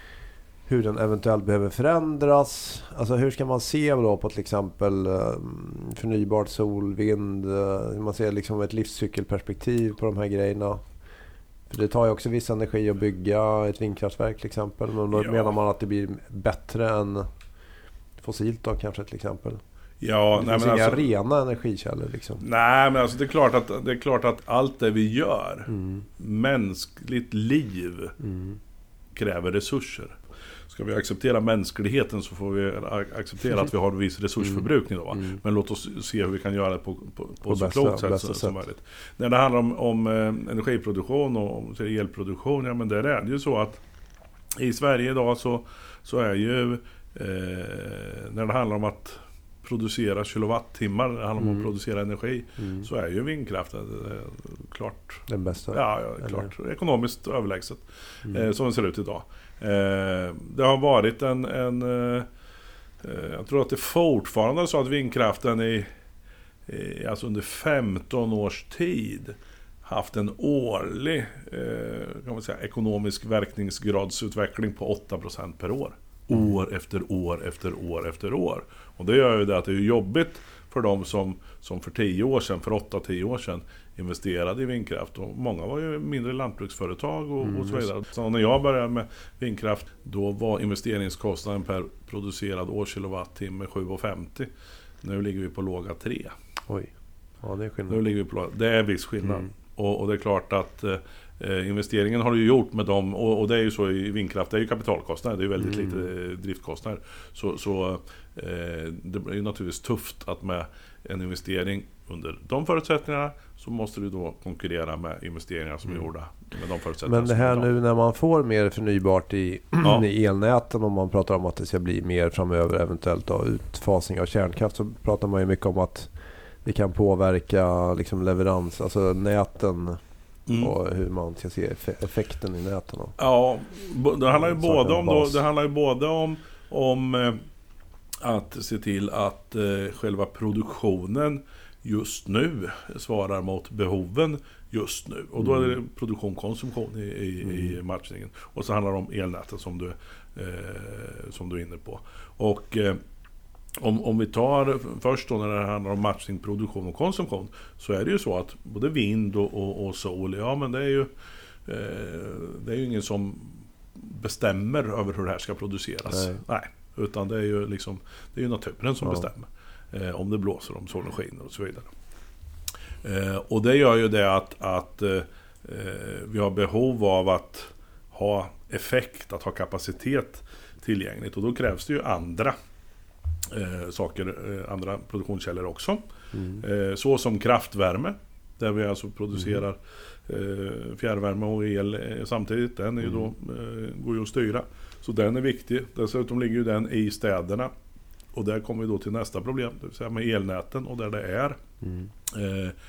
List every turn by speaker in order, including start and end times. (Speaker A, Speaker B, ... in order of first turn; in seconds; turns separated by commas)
Speaker A: 0.7-10.8, Speaker A: 11.7-17.3, Speaker B: 15.1-15.5, Speaker A: 18.2-19.6, Speaker B: 20.0-21.1, Speaker A: 20.3-22.4, Speaker B: 22.4-28.2, Speaker A: 25.7-26.0, Speaker A: 28.2-28.6, Speaker B: 29.1-30.2, Speaker B: 30.7-43.8, Speaker A: 37.5-38.6, Speaker B: 44.6-62.2, Speaker A: 51.4-51.7, Speaker A: 52.6-52.9, Speaker A: 55.3-56.5, Speaker B: 63.0-65.9, Speaker B: 66.7-94.5, Speaker A: 87.4-87.9, Speaker B: 95.0-96.3, Speaker A: 97.4-98.0, Speaker B: 97.9-117.7, Speaker A: 105.6-106.0, Speaker A: 117.0-126.1, Speaker A: 126.6-130.0, Speaker B: 130.5-130.8, Speaker A: 130.6-133.1, Speaker B: 133.2-137.4, Speaker A: 134.3-135.4, Speaker B: 138.2-153.0, Speaker A: 145.4-145.7, Speaker A: 147.4-147.8, Speaker B: 153.8-161.1, Speaker B: 161.7-171.9, Speaker A: 166.1-166.4, Speaker B: 173.0-182.5, Speaker B: 183.4-186.0, Speaker A: 186.3-186.6, Speaker B: 186.6-197.7, Speaker B: 198.3-201.6, Speaker A: 201.8-202.1, Speaker B: 202.3-202.7